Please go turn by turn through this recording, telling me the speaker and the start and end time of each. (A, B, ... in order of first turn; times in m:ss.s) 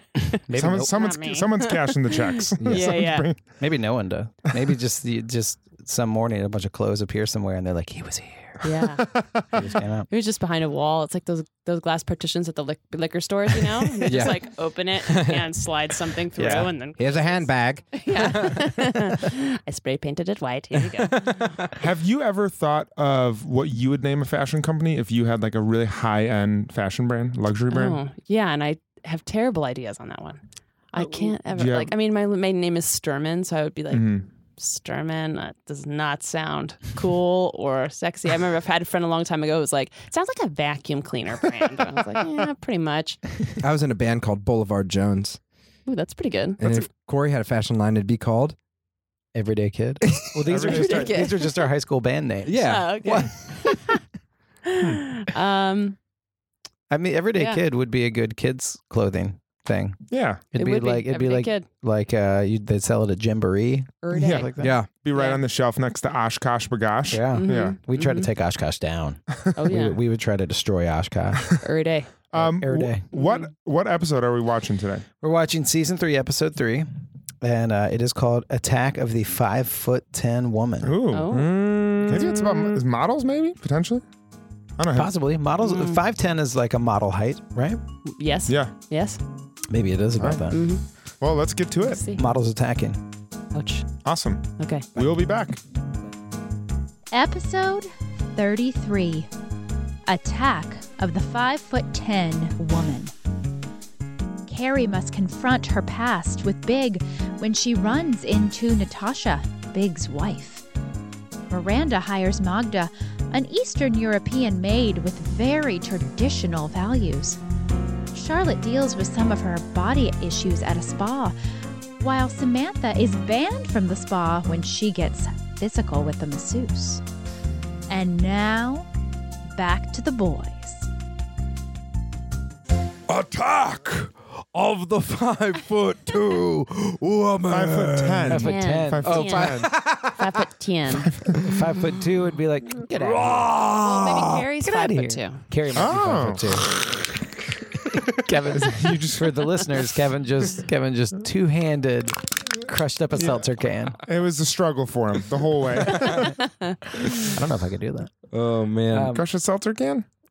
0:00.2-0:03.3 A
0:00.4-0:00.9 B
0:00.6-0:03.4 C
0:02.6-0:08.7 B
0:08.6-0:09.1 A
0:09.5-0:10.1 B
0:10.1-0:21.3 A
0:14.0-0:15.5 D
0:16.4-0:16.7 B
0:17.0-0:18.9 D
0:21.2-0:21.5 D
0:21.8-0:28.0 C
0:27.7-0:43.2 A
0:31.0-0:31.9 C
0:33.9-0:34.2 C
0:43.6-0:45.4 D
0:45.8-0:46.6 A
0:46.6-0:48.6 D
0:49.3-0:54.0 B
0:50.4-0:51.2 C
0:50.6-0:51.7 A
0:52.4-0:53.3 D
0:52.6-0:54.0 A
0:54.6-0:56.0 A
0:56.9-1:00.0 B
0:57.4-0:57.6 A
1:00.1-1:00.4 C
1:00.5-1:04.7 B
1:00.6-1:01.7 A
1:04.0-1:04.5 A
1:04.1-1:07.8 C
1:04.6-1:04.9 D
1:05.1-1:05.4 A
1:07.1-1:11.6 B
1:07.3-1:08.3 A
1:09.5-1:10.0 A
1:11.6-1:12.1 A
1:12.3-1:15.0 C
1:12.3-1:13.0 B
1:13.1-1:13.5 A
1:15.2-1:16.9 B
1:17.4-1:21.0 B
1:20.8-1:21.3 C
1:21.1-1:21.5 A
1:21.3-1:22.4 D
1:22.0-1:24.0 C
1:24.8-1:25.1 C
1:24.9-1:27.8 B
1:25.6-1:26.0 A
1:28.1-1:29.2 A
1:28.5-1:28.7 C
1:29.7-1:30.6 B
1:30.2-1:30.5 C
1:30.5-1:30.8 A
1:31.2-1:32.0 C
1:31.8-1:32.2 A
1:32.1-1:33.0 B
1:33.5-1:33.9 A
1:34.0-1:35.6 C
1:34.6-1:34.8 A
1:37.1-1:39.3 E
1:40.1-1:43.1 E
1:44.4-1:50.6 E
1:51.5-1:57.4 E
1:58.1-2:01.4 E
2:02.0-2:07.0 E
2:07.9-2:08.9 E
2:09.5-2:10.9 E
2:13.1-2:18.5 D
2:17.5-2:19.7 C
2:18.3-2:19.2 B
2:18.4-2:21.1 A
2:19.0-2:20.2 D
2:21.0-2:21.4 C
2:21.4-2:23.7 B
2:22.9-2:24.4 D
2:23.8-2:25.4 A
2:24.2-2:26.8 B
2:25.7-2:26.5 C
2:27.9-2:34.0 B
2:28.6-2:29.4 C
2:33.2-2:33.5 C
2:34.0-2:36.4 C
2:35.9-2:36.2 B
2:36.2-2:37.1 A
2:37.0-2:38.1 B
2:38.3-2:39.1 D
2:38.9-2:39.2 B
2:39.0-2:40.0 C